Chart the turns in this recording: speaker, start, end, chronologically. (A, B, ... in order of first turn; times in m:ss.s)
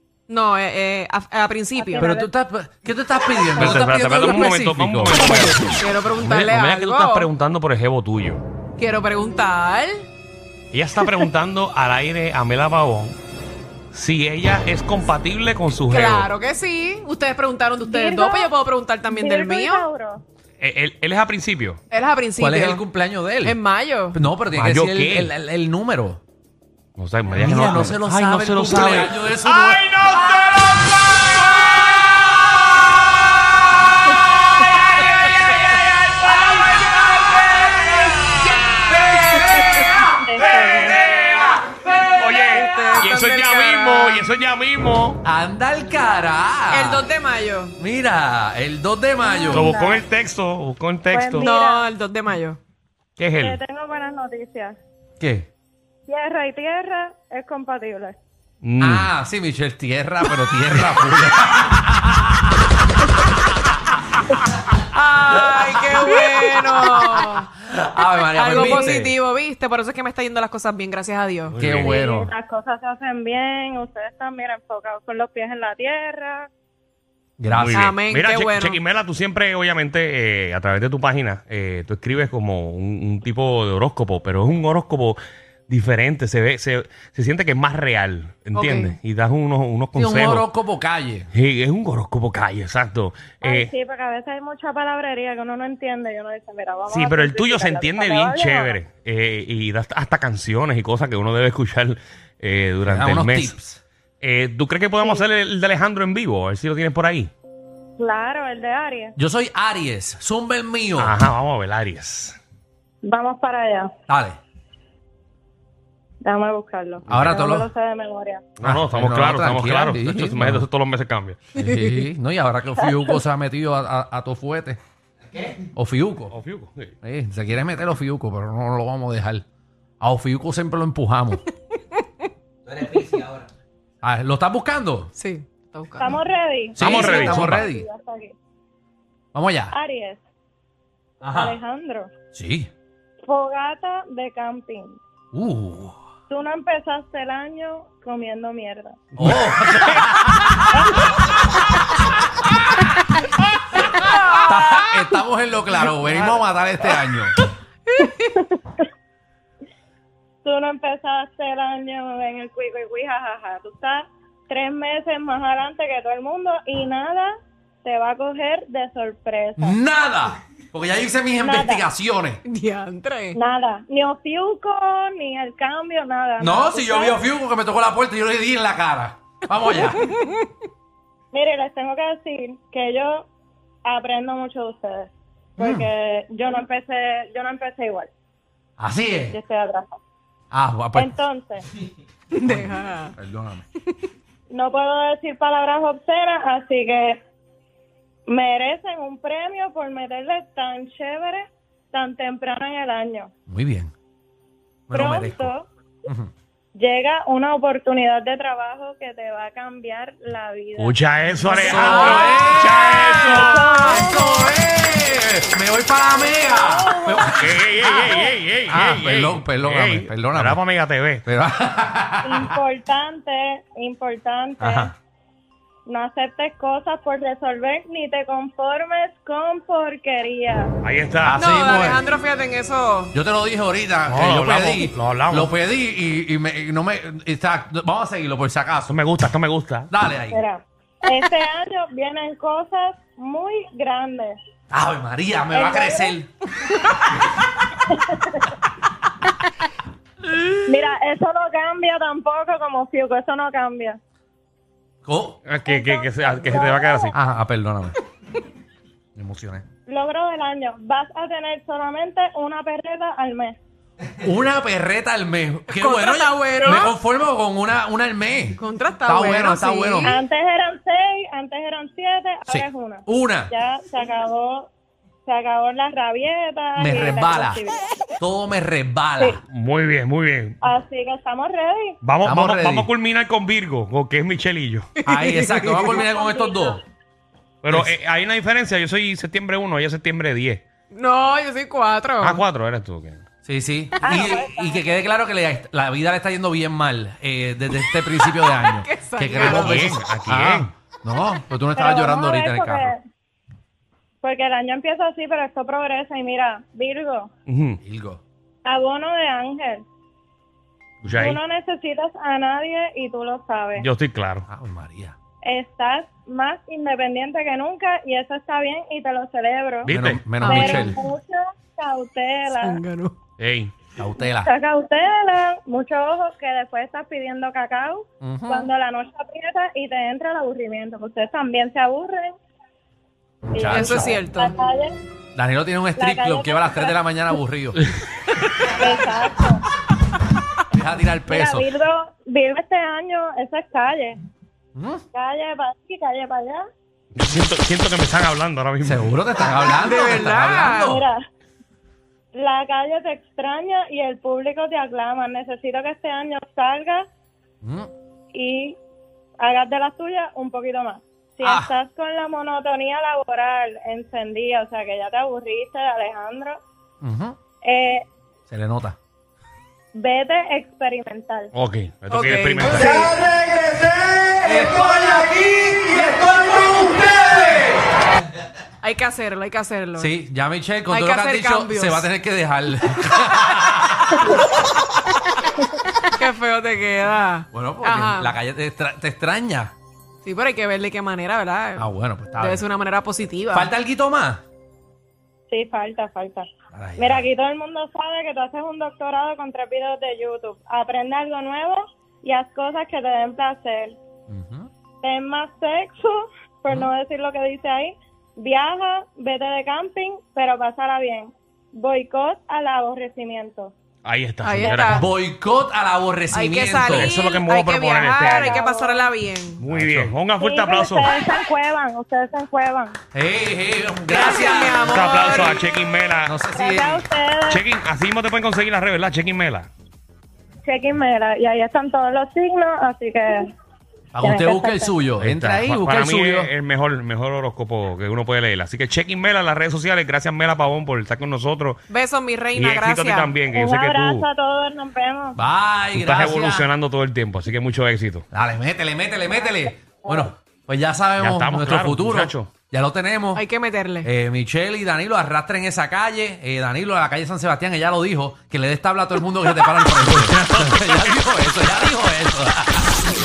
0:00.3-0:02.1 A
0:01.8-0:02.3 B
0:02.0-0:05.5 C
0:03.4-0:03.9 B
0:03.6-0:08.4 D
0:05.4-0:07.3 A
0:08.8-0:10.1 A
0:10.7-0:13.2 D
0:11.0-0:11.3 A
0:13.9-0:16.3 D
0:15.9-0:19.8 A
0:17.8-0:18.5 B
0:19.1-0:20.2 B
0:20.6-0:21.8 D
0:21.9-0:22.8 A
0:22.4-0:23.6 C
0:23.4-0:24.2 A
0:24.1-0:26.2 C
0:24.5-0:25.3 D
0:27.0-0:32.0 D
0:27.3-0:30.2 C
0:34.9-0:45.2 D
0:36.8-0:37.5 C
0:38.9-0:42.0 C
0:40.2-0:41.0 B
0:42.5-0:44.2 A
0:45.2-0:47.0 C
0:46.7-0:47.7 A
0:47.8-0:49.7 C
0:49.2-0:50.0 B
0:49.5-0:51.5 D
0:51.1-0:51.8 B
0:51.4-0:52.6 A
0:53.2-0:53.6 D
0:53.4-0:54.8 B
0:55.2-0:55.5 C
0:56.1-0:58.2 B
0:58.6-0:59.1 D
0:58.8-1:02.6 C
1:04.9-1:07.5 A
1:07.6-1:09.1 C
1:08.3-1:11.6 A
1:08.5-1:08.9 B
1:11.5-1:11.9 D
1:11.6-1:12.3 C
1:11.8-1:16.5 B
1:17.4-1:17.9 C
1:17.5-1:30.5 D
1:17.7-1:18.8 A
1:28.5-1:28.9 A
1:29.9-1:31.3 C
1:31.3-1:33.7 D
1:33.4-1:38.8 B
1:36.9-1:43.5 D
1:42.9-1:43.8 C
1:44.2-1:47.3 D
1:48.0-1:49.2 B
1:49.2-1:51.2 C
1:51.0-1:52.4 D
1:53.0-1:53.9 B
1:54.1-1:54.4 C
1:56.2-1:58.4 B
1:57.1-1:57.7 C
1:58.6-2:01.4 D
1:58.6-2:00.6 C
2:01.5-2:04.8 C
2:02.8-2:03.2 B
2:05.6-2:06.3 C
2:06.3-2:06.9 D
2:07.0-2:09.4 C
2:10.0-2:11.4 C
2:12.8-2:13.4 A
2:14.0-2:15.1 C
2:15.2-2:16.2 A
2:16.0-2:18.3 B
2:16.8-2:17.8 C
2:16.8-2:17.7 D
2:19.3-2:19.7 C
2:19.7-2:20.2 B
2:21.2-2:21.6 C
2:21.2-2:22.1 B
2:22.3-2:22.7 C
2:23.2-2:25.0 B
2:25.3-2:25.9 C
2:26.3-2:29.0 B
2:29.2-2:30.8 C
2:30.7-2:31.1 B
2:34.0-2:35.1 A
2:34.4-2:37.4 C
2:35.9-2:36.2 A
2:37.9-2:38.4 A
2:38.3-2:38.8 B
2:40.4-2:47.3 B
2:47.8-2:49.8 B
2:49.6-2:52.4 C
2:51.4-2:51.8 B
2:52.4-2:53.4 A
2:53.3-2:57.2 B
2:56.4-3:00.0 C
2:59.8-3:00.5 A
3:01.3-3:03.3 B
3:03.8-3:08.1 B
3:05.6-3:05.9 C
3:08.8-3:09.4 C
3:09.3-3:09.9 B
3:10.5-3:11.1 C
3:10.9-3:11.7 B
3:12.3-3:13.1 A
3:12.4-3:13.6 C
3:14.5-3:17.2 B
3:18.3-3:23.3 B
3:23.5-3:23.9 C
3:24.9-3:25.5 C
3:24.9-3:25.7 B
3:26.0-3:26.3 C
3:26.8-3:32.5 B
3:30.8-3:33.7 D
3:31.6-3:37.9 C
3:31.8-3:32.3 A
3:33.2-3:34.5 B
3:36.2-3:38.3 B
3:37.3-3:41.2 D
3:38.7-3:40.6 C
3:41.2-3:42.6 C
3:42.2-3:44.9 B
3:44.6-3:44.9 C
3:45.9-3:50.7 B
3:50.8-3:51.4 D
3:51.2-3:52.0 C
3:51.4-3:53.1 A
3:53.1-3:59.0 C
3:54.1-3:55.5 D
3:58.9-3:59.9 D
3:59.9-4:00.4 C
4:00.3-4:04.4 B
4:04.7-4:06.3 C
4:05.5-4:06.2 B
4:07.7-4:08.5 B
4:10.6-4:14.0 B
4:15.0-4:15.4 C
4:15.4-4:17.1 D
4:15.6-4:17.1 B
4:17.1-4:18.0 C
4:19.2-4:19.6 C
4:19.9-4:23.6 B
4:24.2-4:30.2 C
4:25.7-4:26.9 A
4:26.6-4:26.9 B
4:28.6-4:30.2 A
4:30.0-4:34.7 B
4:32.5-4:33.5 C
4:35.2-4:37.9 B
4:36.8-4:37.6 C
4:38.2-4:39.4 C
4:39.5-4:40.6 D
4:40.6-4:42.0 B
4:42.0-4:44.9 D
4:42.2-4:42.9 C
4:45.0-4:46.0 A
4:45.0-4:46.8 C
4:45.8-4:46.8 B
4:47.6-4:50.6 D
4:50.9-4:52.4 A
4:52.2-4:53.2 D
4:53.4-5:02.9 C
4:54.0-4:54.9 B
4:58.4-4:59.8 A
4:59.4-5:00.7 D
5:01.8-5:03.0 B
5:04.2-5:07.3 B
5:07.5-5:07.8 D
5:07.8-5:08.2 C
5:08.6-5:09.8 B
5:11.0-5:11.4 D
5:11.2-5:13.9 B
5:13.8-5:14.4 D
5:14.5-5:15.2 C
5:15.4-5:22.8 B
5:19.8-5:20.2 D
5:19.9-5:21.0 C
5:20.4-5:21.0 A
5:22.6-5:23.1 A
5:23.4-5:23.7 D
5:24.0-5:24.5 C
5:24.2-5:32.3 B
5:28.2-5:28.7 C
5:33.5-5:34.9 B
5:33.5-5:34.2 C
5:33.7-5:34.5 A
5:35.4-5:37.8 C
5:36.0-5:36.9 B
5:38.6-5:39.6 B
5:40.7-5:41.7 C
5:41.3-5:44.2 B
5:44.7-5:45.0 C
5:45.1-5:46.6 B
5:47.1-5:49.1 D
5:48.8-5:51.0 C
5:49.6-5:51.0 A
5:50.8-5:51.2 B
5:52.3-5:57.0 B
5:57.6-5:57.9 C
5:58.3-5:58.8 B
5:59.4-6:06.6 B
6:01.4-6:01.7 C
6:07.0-6:07.4 C
6:07.6-6:08.1 B
6:08.5-6:09.0 C
6:10.0-6:11.5 B
6:11.5-6:13.1 D
6:12.1-6:13.1 A
6:12.6-6:17.9 C
6:18.8-6:20.1 A
6:20.0-6:24.3 C
6:20.9-6:22.1 A
6:26.0-6:28.4 A
6:27.5-6:29.7 C
6:30.2-6:31.8 A
6:31.8-6:32.6 C
6:32.4-6:33.7 A
6:33.5-6:34.4 C
6:35.5-6:36.4 B
6:36.7-6:37.3 C
6:37.0-6:44.0 B
6:44.3-6:44.7 C
6:45.0-6:53.7 B
6:54.0-6:55.0 D
6:54.4-6:55.1 A
6:54.6-6:55.0 B
6:54.9-6:57.2 C
6:56.3-6:59.6 A
6:56.8-6:58.6 D
6:58.1-6:59.0 B
6:59.6-7:01.1 D
6:59.7-7:00.1 C
7:00.4-7:03.0 B
7:03.1-7:05.5 C
7:04.1-7:05.6 A
7:04.2-7:04.5 B
7:04.9-7:06.3 D
7:06.2-7:07.0 C
7:06.5-7:07.6 B
7:07.5-7:09.7 D
7:10.6-7:13.5 B
7:14.1-7:16.5 C
7:14.2-7:14.9 B
7:15.2-7:21.8 D
7:21.9-7:23.3 A
7:22.5-7:24.2 D
7:23.5-7:25.4 B
7:25.4-7:26.7 C
7:25.9-7:28.2 D
7:28.3-7:33.4 C
7:31.2-7:32.5 D
7:33.3-7:34.1 A
7:34.0-7:43.0 C
7:40.2-7:41.2 D